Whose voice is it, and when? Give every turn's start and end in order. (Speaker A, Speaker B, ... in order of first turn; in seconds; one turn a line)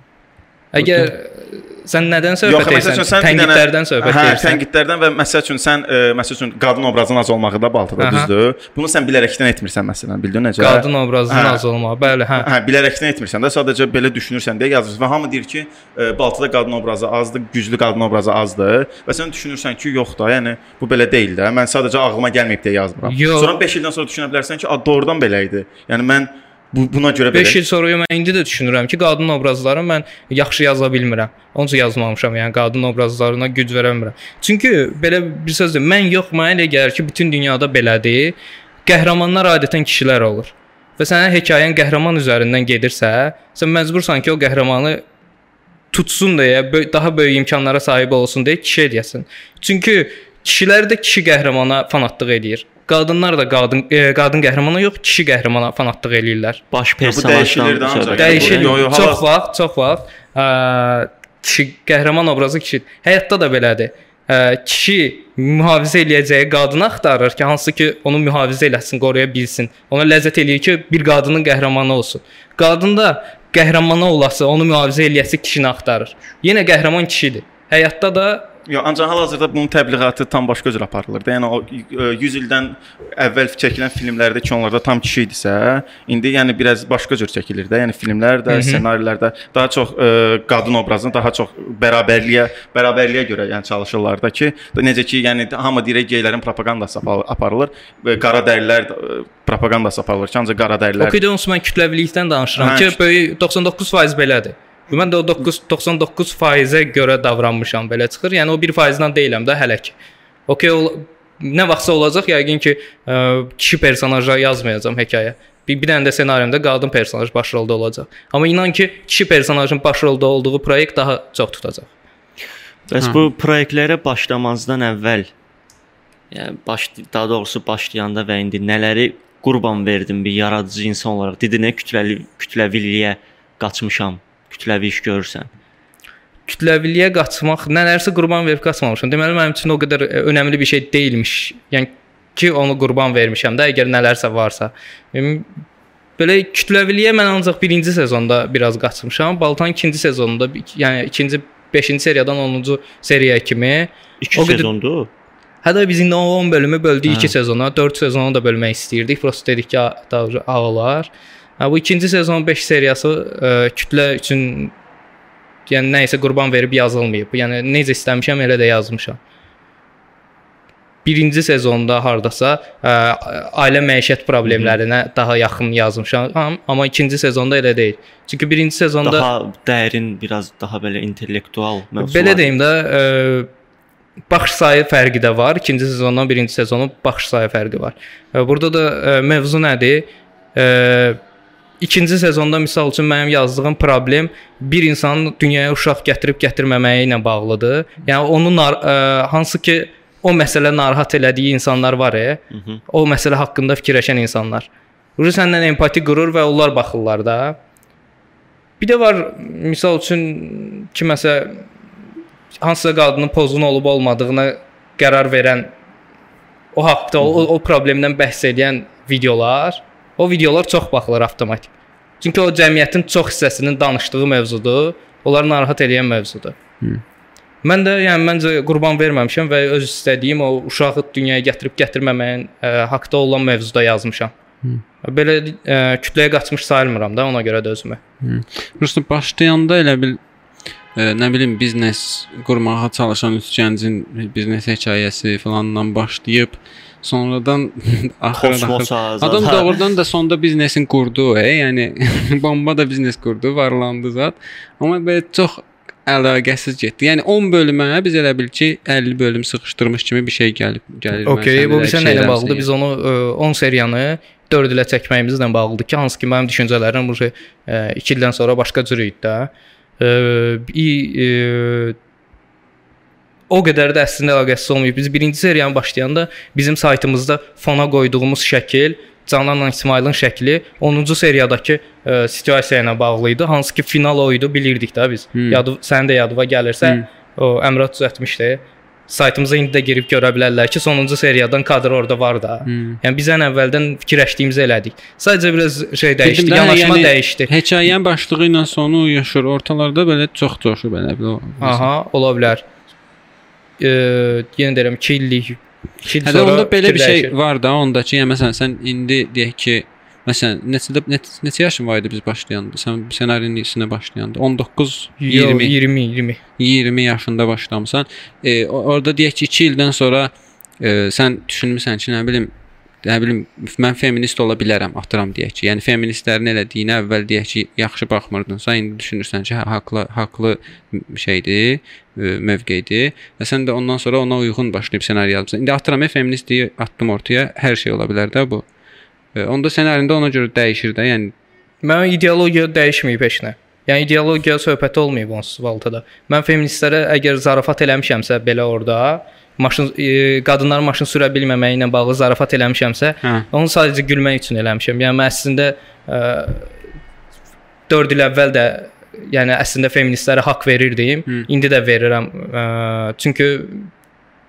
Speaker A: 0.7-4.6
Speaker B: 0.8-1.1
Speaker C: 2.4-11.6
Speaker A: 8.0-8.3
Speaker A: 10.6-12.5
Speaker C: 12.3-27.6
Speaker A: 23.0-23.6
Speaker A: 27.3-45.0
Speaker A: 45.9-56.6
Speaker D: 56.7-58.8
Speaker C: 57.0-59.2
Speaker A: 58.2-78.5
Speaker C: 78.7-101.2
Speaker A: 88.5-88.8
Speaker A: 101.0-109.9
Speaker C: 102.5-103.0
Speaker A: 110.5-121.9
Speaker D: 122.9-125.3
Speaker D: 126.3-135.5
Speaker A: 136.5-145.5
Speaker A: 146.2-154.7
Speaker D: 154.2-155.1
Speaker A: 155.6-164.7
Speaker D: 157.1-157.3
Speaker A: 165.7-169.2
Speaker A: 171.0-179.3
Speaker D: 174.4-174.8
Speaker D: 179.0-182.5
Speaker A: 182.0-183.5
Speaker A: 184.3-191.2
Speaker A: 191.8-207.6
Speaker D: 202.5-202.8
Speaker A: 208.8-211.7
Speaker A: 212.6-215.7
Speaker A: 216.7-226.6
Speaker A: 227.6-234.3
Speaker A: 235.0-238.0
Speaker B: 238.2-240.2
Speaker B: 240.9-262.7
Speaker D: 248.3-249.7
Speaker A: 261.3-271.9
Speaker A: 273.5-297.5
Speaker B: 285.3-285.6
Speaker B: 292.6-293.0
Speaker B: 296.2-301.9
Speaker A: 301.6-302.6
Speaker A: 303.8-307.3
Speaker B: 306.2-315.7
Speaker A: 315.2-316.4
Speaker B: 316.6-322.5
Speaker B: 323.0-338.6
Speaker B: 339.3-341.3
Speaker A: 341.8-356.7
Speaker A: 357.9-363.9